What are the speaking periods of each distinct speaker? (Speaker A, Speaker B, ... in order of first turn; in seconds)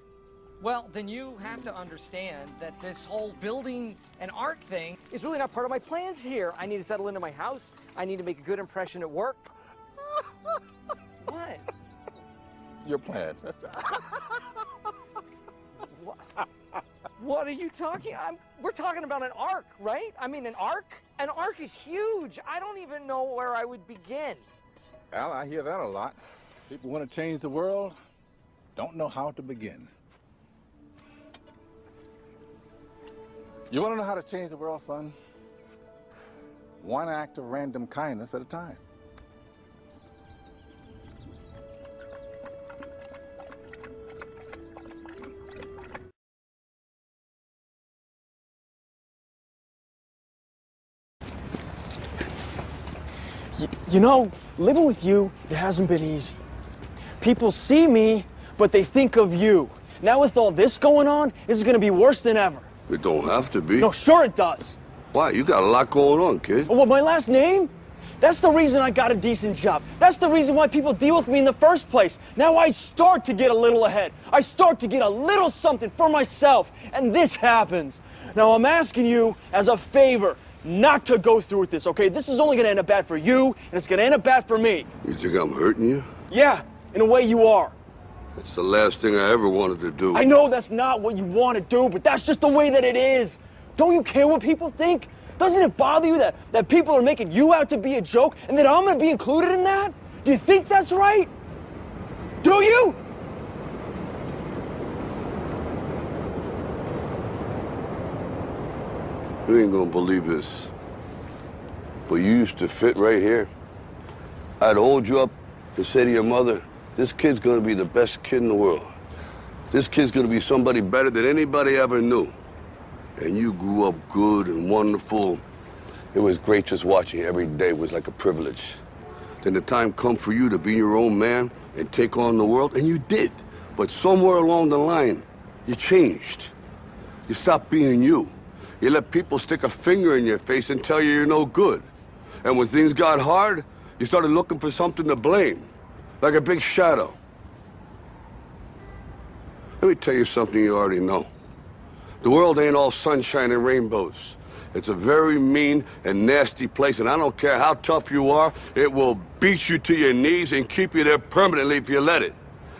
Speaker A: 0.6-9.6, 11.2-11.7, 17.2-24.4
Speaker B: 12.8-13.8, 25.1-28.0, 28.8-29.9, 33.7-35.2, 36.8-38.8
Speaker C: 53.5-56.4, 57.2-62.7, 63.8-64.8, 66.7-84.9, 86.3-87.8, 90.1-101.3, 102.4-103.0
Speaker D: 62.9-63.9, 65.1-66.7, 85.0-86.1, 88.4-90.2, 109.5-110.7, 112.1-113.5, 114.6-119.0, 119.7-122.4, 123.2-125.4, 126.1-128.8, 129.4-136.5, 137.3-141.9, 142.4-147.2, 149.8-151.3, 152.2-162.4